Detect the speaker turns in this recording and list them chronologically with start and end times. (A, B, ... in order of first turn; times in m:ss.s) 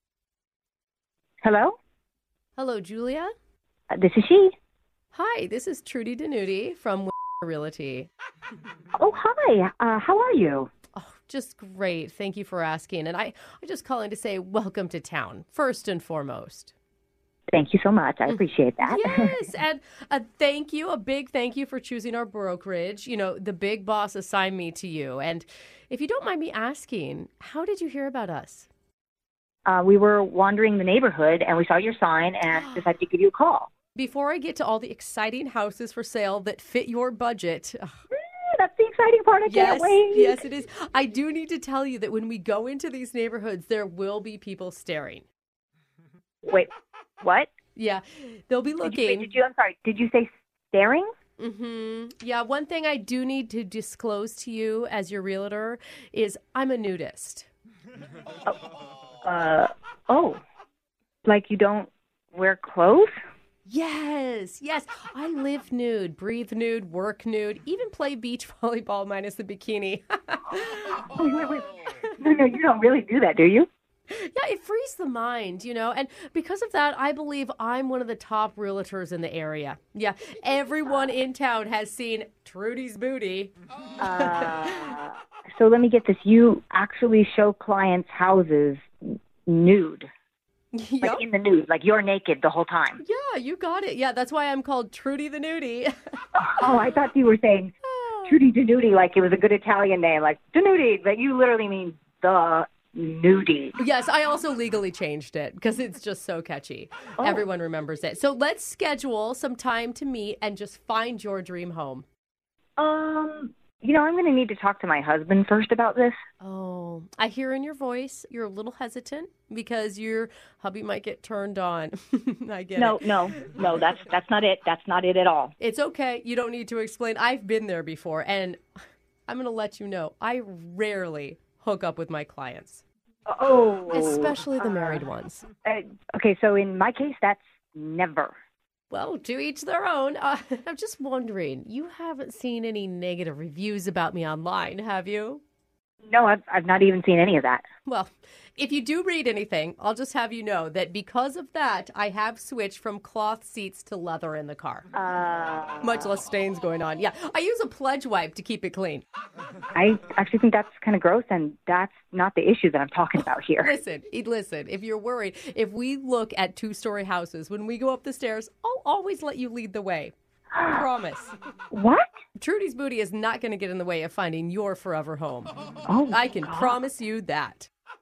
0:01.4-0:01.8 A
0:02.6-0:03.3 B
0:03.9-0:04.5 A
0:05.1-0:08.1 B
0:09.0-0:10.7 A
0:11.0-0:16.7 B
0:17.5-0:19.3 A
0:18.3-0:28.7 B
0:29.7-0:33.7 A
0:32.5-0:32.9 B
0:34.0-0:37.9 B
0:38.2-0:40.4 A
0:39.5-0:45.2 B
0:47.2-0:47.5 A
0:47.8-0:49.3 B
0:48.8-0:51.1 A
0:51.4-0:57.5 B
0:59.2-1:00.4 A
1:01.2-1:03.1 A
1:03.7-1:11.1 B
1:11.0-1:13.7 A
1:14.1-1:23.5 B
1:24.0-1:30.1 A
1:24.2-1:24.9 B
1:30.7-1:31.2 B
1:31.0-1:33.0 A
1:33.0-1:35.9 B
1:36.4-1:37.7 A
1:37.9-1:38.4 B
1:38.3-1:43.8 A
1:43.8-1:52.0 B
1:47.2-1:47.4 A
1:52.8-1:56.2 A
1:56.4-2:03.5 B
2:02.8-2:05.5 A
2:05.6-2:08.6 B
2:09.3-2:12.8 B
2:13.3-2:15.0 A
2:13.9-2:15.5 B
2:15.6-2:18.4 A
2:18.9-2:25.4 B
2:26.1-2:27.6 A
2:27.9-2:34.9 B
2:34.9-2:36.0 A
2:35.8-2:39.0 B
2:39.7-2:43.7 A
2:43.6-2:51.3 B
2:50.6-2:50.8 A
2:51.7-2:52.1 A
2:52.4-2:55.5 B
2:55.9-2:56.8 A
2:56.1-2:57.7 B